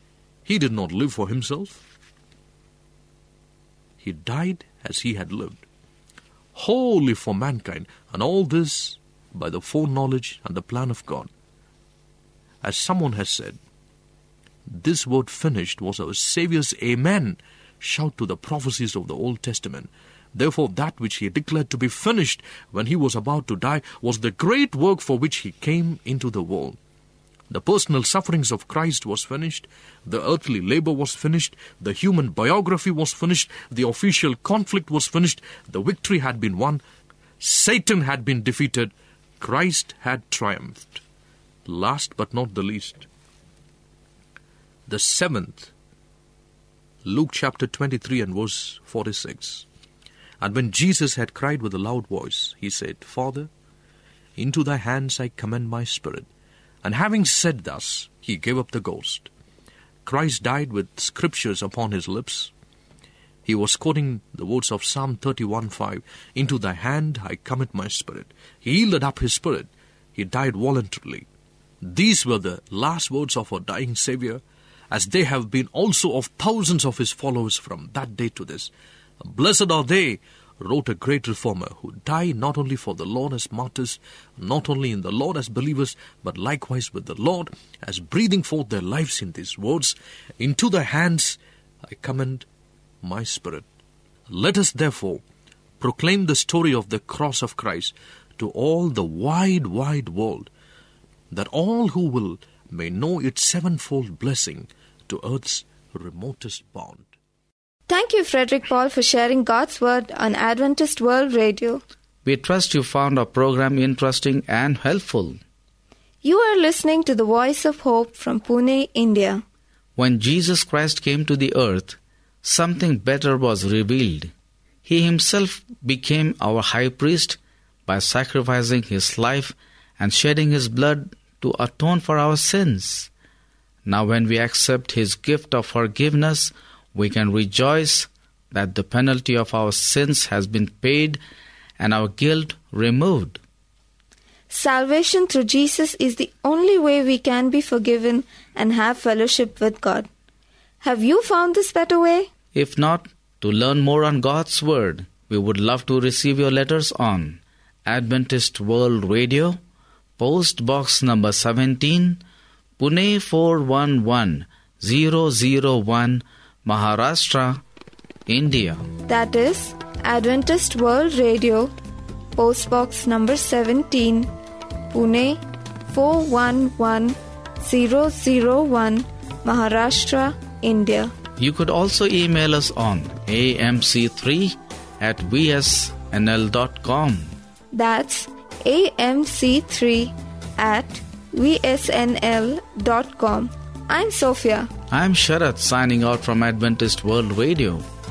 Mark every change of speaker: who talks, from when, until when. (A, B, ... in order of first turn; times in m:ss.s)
0:00.5-0:01.8 A
0:04.0-0:05.6 A
0:06.6-0:11.3 A
0:12.6-0:13.6 A
0:14.7-0:26.8 A
0:27.5-0:36.8 A
0:37.4-0:41.0 A
0:41.7-0:43.1 A
0:44.9-0:45.7 A
0:47.0-0:49.7 A
0:50.4-0:53.5 A
0:54.4-0:56.3 A
0:56.8-0:59.3 A
1:00.0-1:02.5 A
1:03.4-1:11.3 A
1:11.8-1:32.5 A
1:33.0-1:33.6 A
1:34.3-1:35.2 A
1:35.8-1:40.5 A
1:41.3-1:47.1 A
1:47.9-1:51.8 B
1:52.2-1:55.4 C
1:56.2-1:59.4 B
2:00.0-2:04.3 C
2:04.8-2:13.1 C
2:13.8-2:21.2 C
2:21.8-2:23.4 C
2:24.5-2:30.1 B
2:30.8-2:32.3 B
2:32.5-2:39.6 C
2:40.2-2:42.2 C
2:42.8-2:47.6 C
2:48.3-2:48.9 C
2:49.1-2:51.7 B
2:52.4-2:54.3 B
2:54.9-3:01.1 B
3:01.4-3:07.4 C
3:07.7-3:14.7 B
3:14.9-3:17.8 C